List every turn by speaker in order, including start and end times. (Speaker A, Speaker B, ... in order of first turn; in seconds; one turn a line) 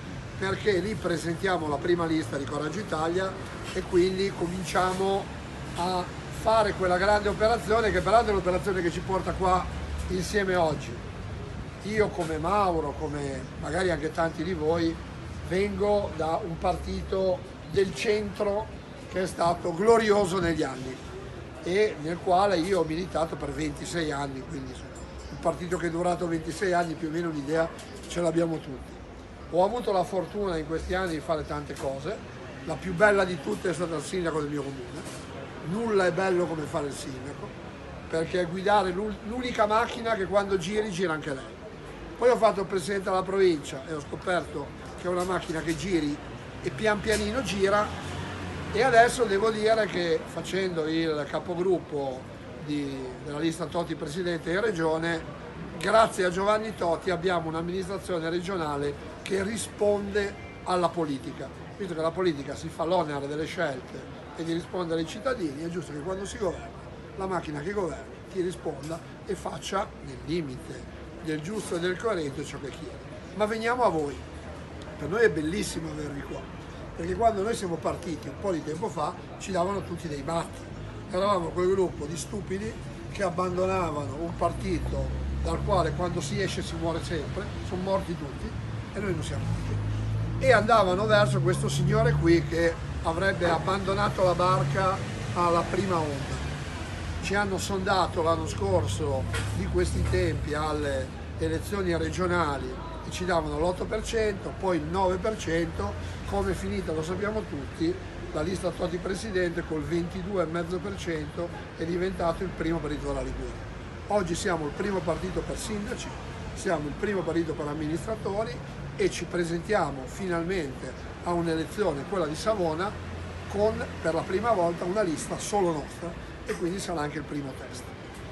Speaker A: 0.4-11.0
Speaker A: 11.8-21.0
Speaker A: 21.6-29.0
Speaker A: 29.5-35.0
Speaker A: 35.6-37.5
Speaker A: 38.1-41.6
Speaker A: 42.2-47.9
Speaker A: 48.7-74.2
Speaker A: 75.0-89.8
Speaker A: 90.4-96.5
Speaker A: 97.2-123.0
Speaker A: 123.5-128.0